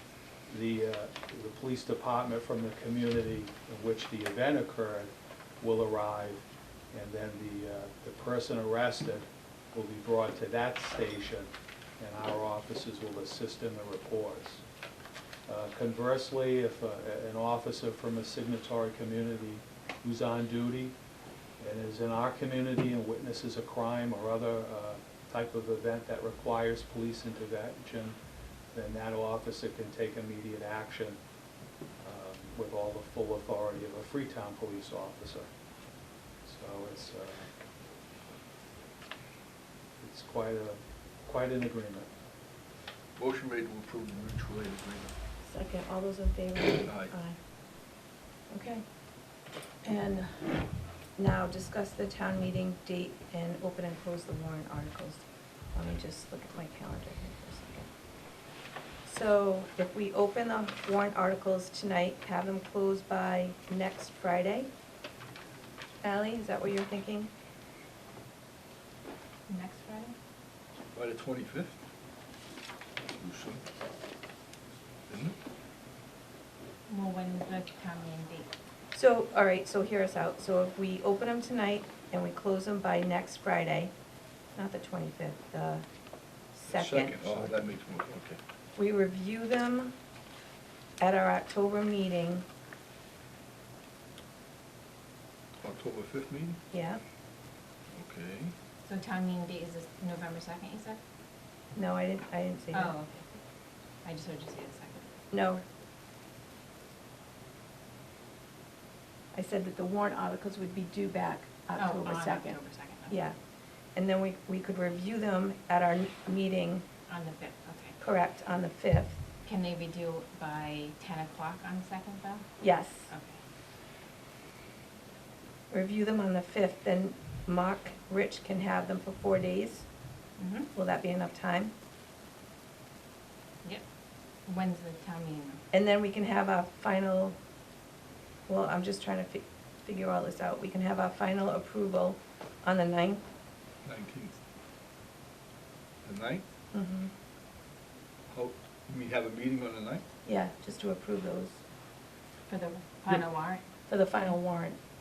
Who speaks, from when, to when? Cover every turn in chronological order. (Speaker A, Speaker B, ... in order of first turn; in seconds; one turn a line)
Speaker A: 0.5-14.6
Speaker A: 15.5-21.0
Speaker A: 21.6-28.2
Speaker A: 28.7-31.2
Speaker A: 32.0-35.5
Speaker A: 36.4-37.5
Speaker A: 40.0-42.1
Speaker B: 43.2-45.1
Speaker C: 45.4-47.4
Speaker B: 46.9-47.1
Speaker C: 48.5-48.8
Speaker C: 49.8-50.4
Speaker C: 51.2-55.2
Speaker C: 55.8-57.9
Speaker C: 59.0-64.7
Speaker C: 66.0-67.3
Speaker D: 69.5-70.2
Speaker B: 70.9-71.8
Speaker B: 73.2-73.6
Speaker B: 75.1-75.4
Speaker D: 76.9-78.5
Speaker C: 78.9-83.9
Speaker C: 84.6-85.8
Speaker C: 86.5-87.2
Speaker B: 86.7-88.4
Speaker C: 88.8-89.9
Speaker C: 91.0-92.5
Speaker B: 95.6-96.6
Speaker C: 96.7-97.0
Speaker B: 98.0-98.5
Speaker D: 98.9-101.0
Speaker C: 101.8-103.0
Speaker D: 102.7-103.4
Speaker D: 104.0-105.1
Speaker C: 105.3-105.6
Speaker C: 109.3-113.4
Speaker D: 111.8-113.2
Speaker C: 114.0-116.8
Speaker D: 117.1-118.0
Speaker C: 118.0-119.2
Speaker D: 119.5-122.5
Speaker C: 122.6-123.1
Speaker D: 123.1-123.3
Speaker C: 125.7-129.8
Speaker D: 130.4-130.7
Speaker C: 130.8-131.7
Speaker D: 134.5-135.6
Speaker C: 135.7-137.4
Speaker C: 138.5-143.2
Speaker B: 143.8-144.4
Speaker B: 146.1-146.4
Speaker C: 146.7-147.1
Speaker B: 148.3-150.0
Speaker C: 150.2-151.6
Speaker D: 152.5-153.6
Speaker C: 153.9-154.8